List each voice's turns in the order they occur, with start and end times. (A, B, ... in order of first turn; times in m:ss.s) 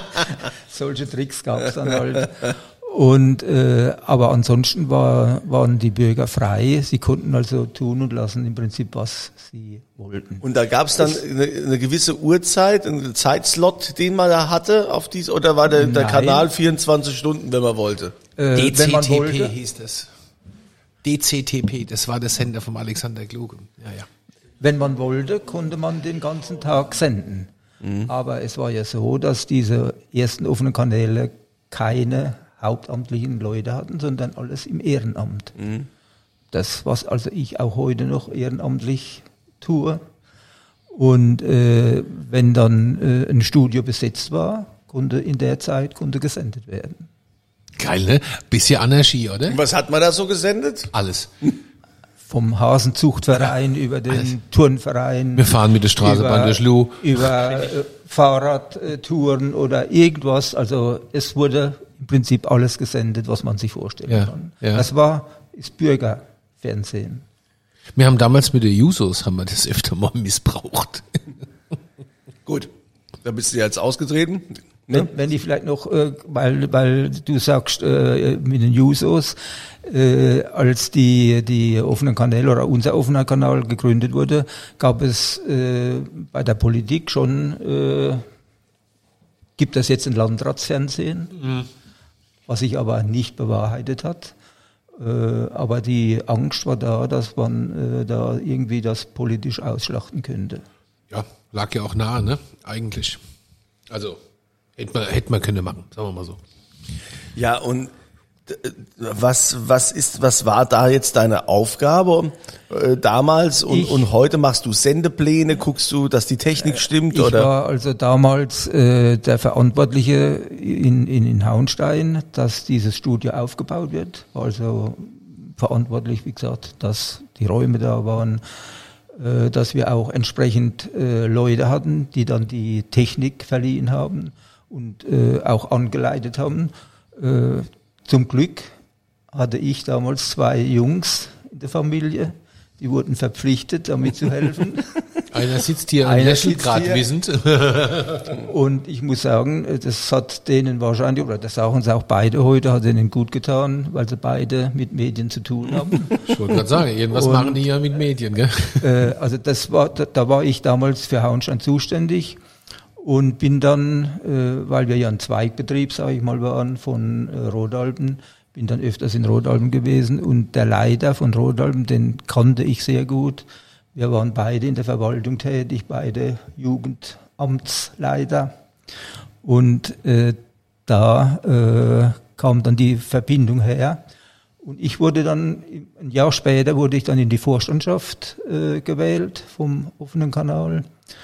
0:00.5-0:10.4 A
0:10.4-0:18.1 B
0:15.7-0:16.5 A
0:18.4-0:19.5 A
0:18.5-0:20.1 C
0:21.0-0:24.1 C
0:24.6-0:27.5 A
0:27.8-0:28.1 B
0:28.0-0:35.5 A
0:35.6-0:35.8 B
0:36.5-0:40.0 A
0:40.9-0:47.1 A
0:47.8-0:49.6 C
0:49.5-0:50.9 B
0:50.9-0:51.3 C
0:52.2-1:07.2 A
0:55.4-0:57.3 C
1:04.1-1:04.8 C
1:07.9-1:11.2 C
1:12.4-1:12.7 B
1:13.2-1:15.1 B
1:14.9-1:28.2 A
1:29.6-1:31.4 A
1:31.4-1:31.6 C
1:32.5-1:34.3 A
1:35.0-1:40.6 A
1:41.1-1:43.2 C
1:43.9-1:44.2 C
1:44.8-1:46.4 C
1:47.3-1:47.9 B
1:48.5-1:57.5 B
1:53.7-1:54.1 A
1:56.8-2:08.4 A
2:09.1-2:18.7 A
2:19.3-2:25.3 A
2:25.3-2:28.3 C
2:26.0-2:27.0 A
2:28.3-2:36.3 A
2:36.2-2:39.0 C
2:37.1-2:37.6 A
2:38.8-2:42.4 A
2:43.0-2:58.5 A
2:59.4-3:04.0 A
3:04.6-3:10.9 A